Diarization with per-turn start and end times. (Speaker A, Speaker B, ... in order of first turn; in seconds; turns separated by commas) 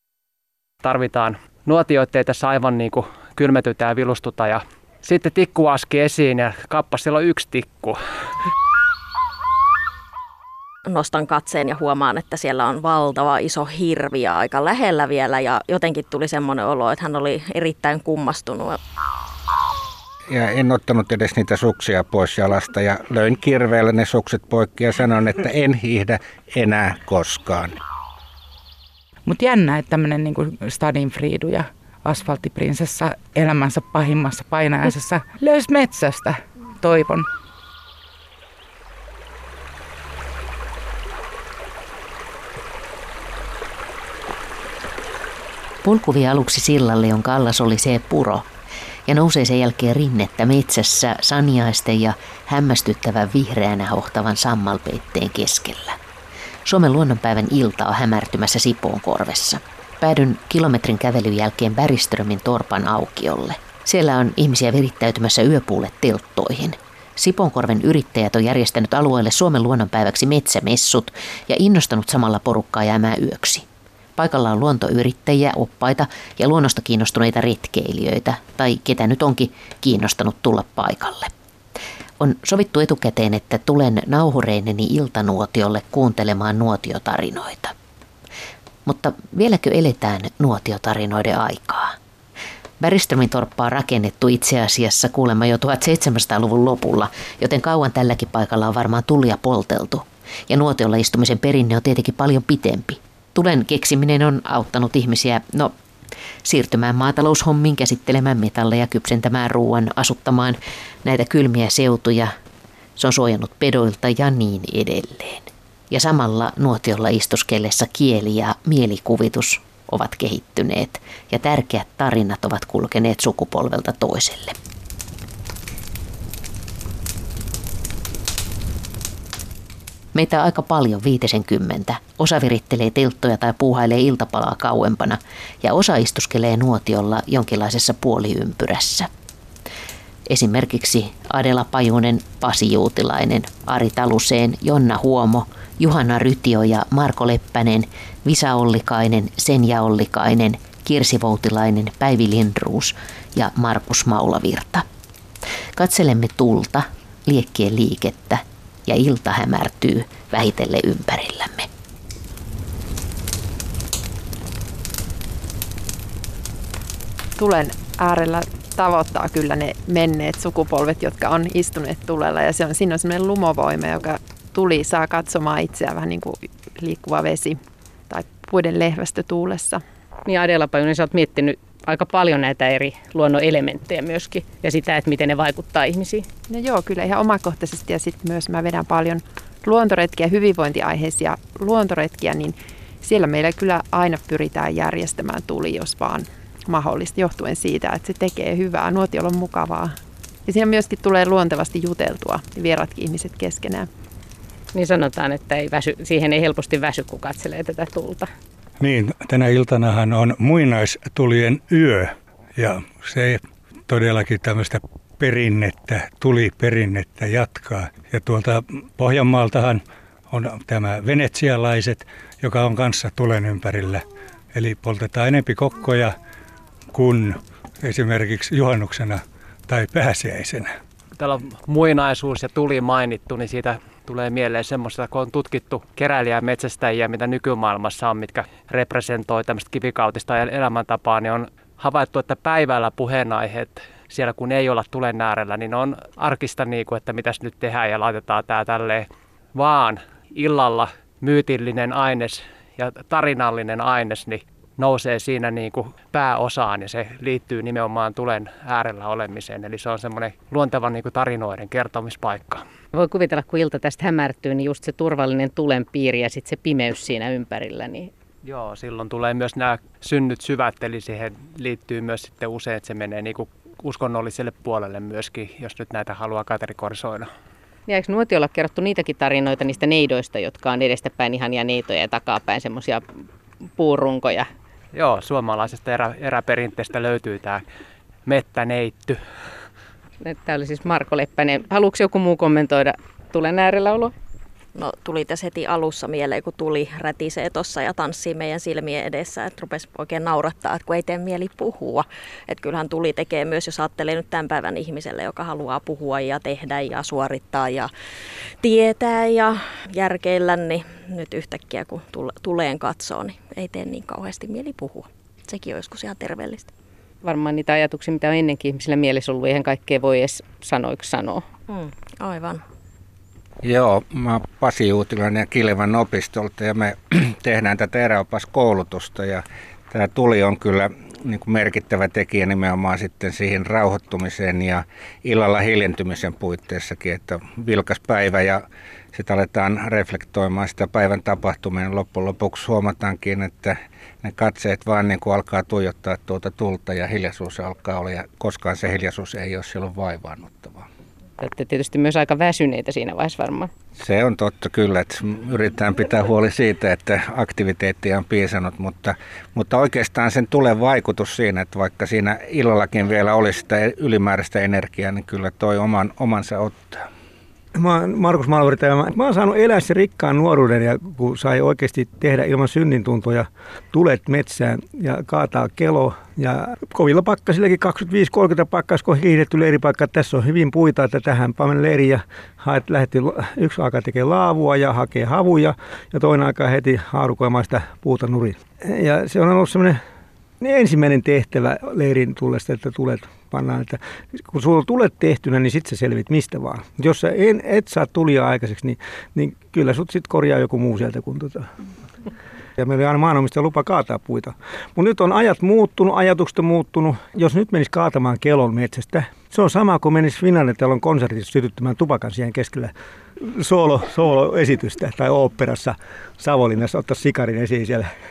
Speaker A: 0.8-8.0, Speaker B: 10.9-18.8, Speaker C: 20.3-27.7, Speaker D: 29.2-37.3, Speaker E: 45.8-48.5, Speaker E: 49.0-56.0, Speaker E: 56.6-73.6, Speaker E: 74.2-81.3, Speaker E: 82.2-87.7, Speaker E: 88.8-92.0, Speaker E: 92.8-105.8, Speaker E: 106.4-112.3, Speaker E: 113.0-124.5, Speaker E: 130.1-139.1, Speaker E: 140.3-154.8, Speaker E: 155.8-161.7, Speaker F: 167.4-179.8, Speaker G: 180.2-186.3, Speaker F: 186.5-199.9, Speaker F: 200.4-203.9, Speaker G: 204.7-208.3, Speaker H: 208.8-226.2, Speaker H: 226.9-230.8, Speaker A: 231.2-262.6, Speaker G: 262.9-268.1, Speaker A: 268.4-277.3, Speaker G: 277.9-283.1, Speaker G: 283.8-284.5, Speaker A: 284.9-287.6, Speaker A: 288.2-289.2, Speaker G: 290.2-294.1, Speaker B: 294.7-307.9, Speaker B: 308.6-316.7, Speaker G: 317.2-321.4, Speaker B: 321.7-322.6, Speaker C: 323.6-338.6, Speaker C: 339.1-350.9, Speaker G: 351.4-353.7, Speaker C: 354.0-367.0, Speaker I: 367.7-390.0, Speaker I: 390.6-401.7, Speaker I: 402.8-418.1